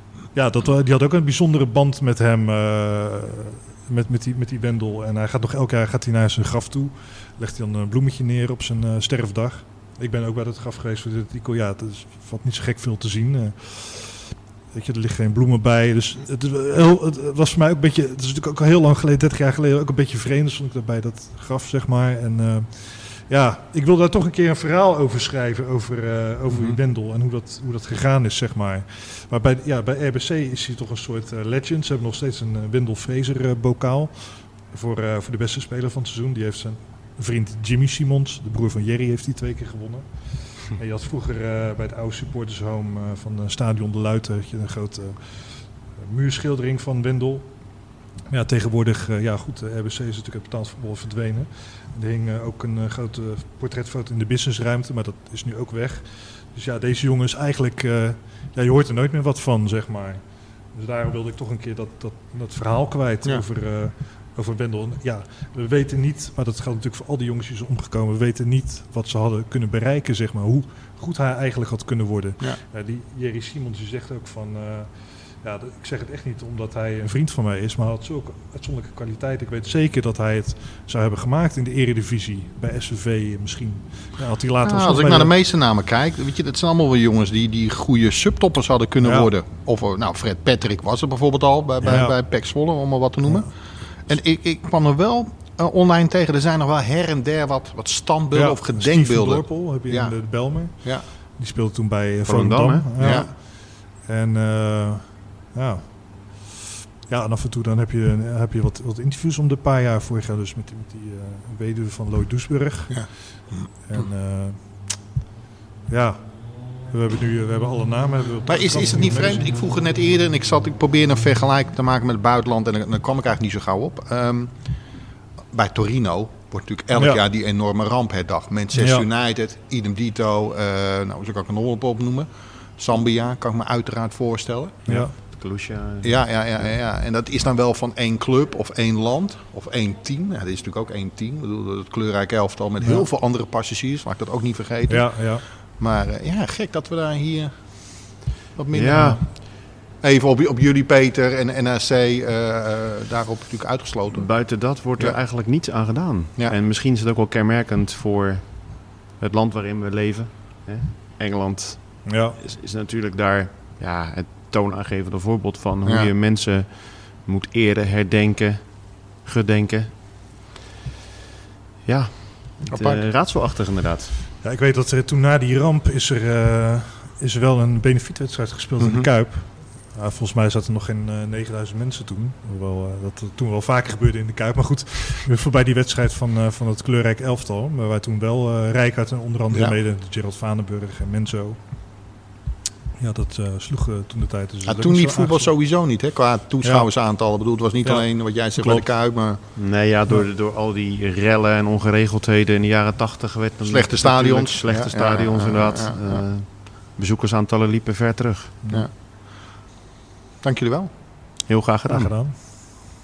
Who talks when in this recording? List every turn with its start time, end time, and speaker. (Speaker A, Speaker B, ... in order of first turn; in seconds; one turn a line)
Speaker A: 0.3-47.5
Speaker B: 26.5-26.8
Speaker A: 48.3-60.2
Speaker A: 60.7-85.3
Speaker B: 84.6-101.0
Speaker A: 89.0-89.3
Speaker A: 91.8-92.1
Speaker A: 93.2-93.5
Speaker A: 98.3-106.5
Speaker C: 102.2-102.9
Speaker B: 103.0-103.3
Speaker A: 107.1-114.9
Speaker B: 112.9-114.0
Speaker A: 115.9-119.5
Speaker B: 118.5-124.5
Speaker B: 125.5-135.2
Speaker A: 126.9-127.2
Speaker A: 128.7-129.0
Speaker A: 134.9-135.1
Speaker C: 134.9-136.7
Speaker B: 136.0-149.5
Speaker A: 142.8-143.1
Speaker A: 144.9-145.4
Speaker C: 148.7-149.2
Speaker B: 150.0-154.3
Speaker C: 154.1-169.9
Speaker A: 162.1-162.4
Speaker B: 165.8-166.1
Speaker C: 171.8-174.1
Speaker B: 172.7-173.0
Speaker A: 174.4-191.6
Speaker B: 178.8-179.1
Speaker B: 189.5-189.8
Speaker A: 193.0-195.5
Speaker B: 194.6-199.4
Speaker A: 196.6-196.9
Speaker A: 197.8-198.8
Speaker C: 199.5-208.6
Speaker B: 203.6-206.2
Speaker B: 210.4-210.9
Speaker C: 211.5-212.1
Speaker A: 211.9-212.3